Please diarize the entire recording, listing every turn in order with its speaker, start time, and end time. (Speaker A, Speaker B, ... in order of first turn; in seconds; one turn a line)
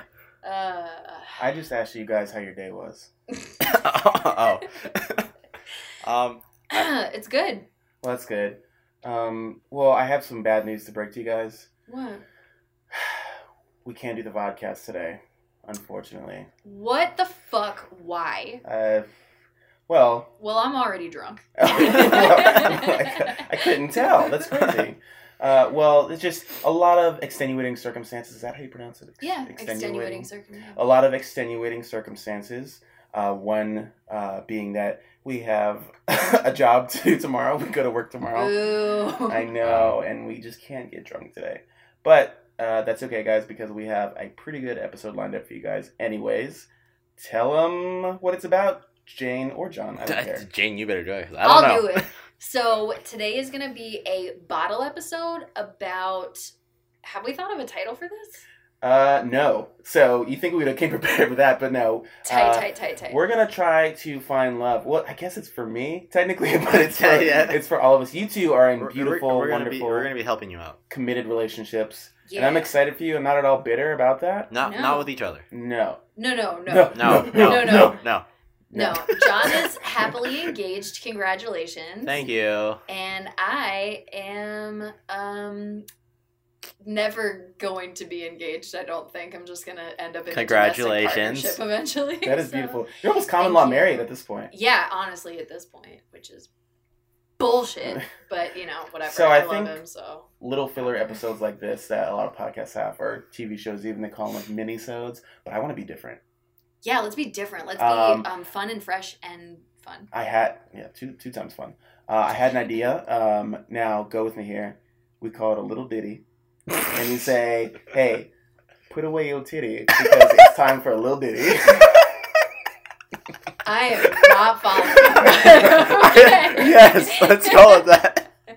Speaker A: 0.4-1.4
Speaker B: 1.4-3.1
Speaker C: 3.6-5.3
Speaker C: 6.0-6.4
Speaker A: 6.7-7.7
Speaker B: 8.0-11.7
Speaker A: 11.9-12.2
Speaker B: 12.9-13.3
Speaker B: 13.8-16.5
Speaker A: 16.6-18.6
Speaker B: 18.6-19.1
Speaker B: 19.9-20.3
Speaker A: 20.4-24.4
Speaker B: 21.6-38.6
Speaker A: 29.2-30.8
Speaker A: 38.3-39.5
Speaker B: 39.2-50.5
Speaker C: 39.6-40.0
Speaker C: 50.0-52.1
Speaker A: 51.4-56.5
Speaker A: 57.0-58.5
Speaker B: 58.8-70.1
Speaker A: 62.2-63.2
Speaker C: 66.8-67.6
Speaker C: 68.8-70.8
Speaker B: 70.9-74.5
Speaker A: 72.2-72.7
Speaker C: 74.5-75.5
Speaker A: 74.6-75.1
Speaker B: 75.5-76.0
Speaker A: 76.2-78.0
Speaker B: 76.7-78.0
Speaker C: 76.9-78.2
Speaker B: 78.7-80.1
Speaker A: 78.7-82.2
Speaker C: 82.0-82.8
Speaker A: 82.9-85.8
Speaker A: 86.8-96.5
Speaker C: 90.3-91.6
Speaker B: 92.2-94.5
Speaker A: 97.4-100.3
Speaker B: 99.0-99.8
Speaker B: 100.4-106.2
Speaker A: 106.8-110.1
Speaker B: 107.8-108.3
Speaker B: 110.1-116.2
Speaker B: 116.8-118.3
Speaker B: 118.9-122.1
Speaker A: 123.6-127.9
Speaker B: 125.1-125.8
Speaker C: 125.9-128.3